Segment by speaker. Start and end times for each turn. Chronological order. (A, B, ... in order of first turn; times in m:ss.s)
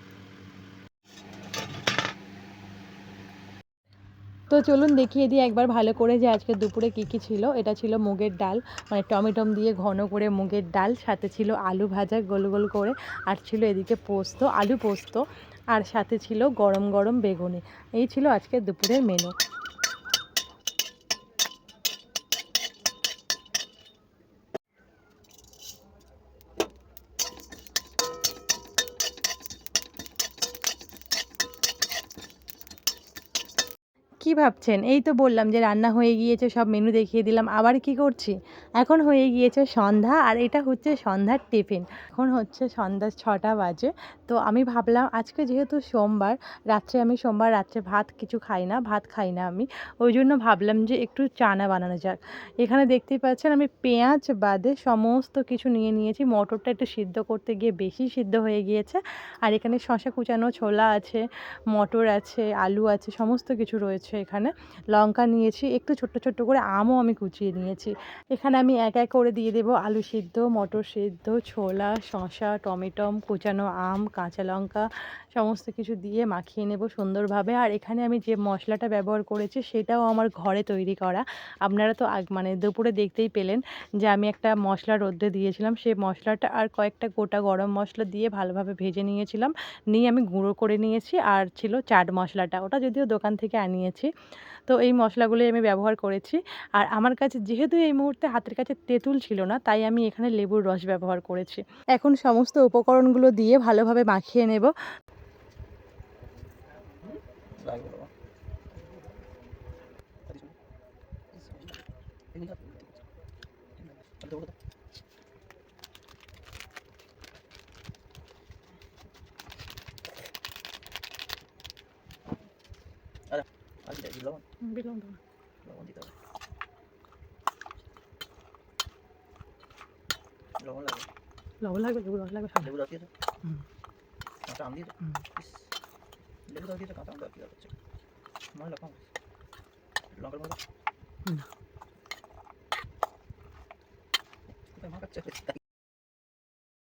0:04.5-0:19.3 A
0:34.2-1:34.1 A
1:34.7-1:44.7 A
1:47.6-1:48.1 B
1:50.3-1:50.6 B
1:51.3-1:51.8 B
1:52.3-1:53.0 B
1:54.0-1:54.5 B
2:03.3-2:04.4 B
2:04.6-2:05.2 A
2:05.6-2:06.1 B
2:10.6-2:11.1 B
2:11.6-2:12.7 A
2:12.6-2:13.1 B
2:14.5-2:15.6 B
2:16.5-2:17.7 B
2:18.5-2:19.1 B
2:20.1-2:20.6 B
2:24.8-2:25.6 B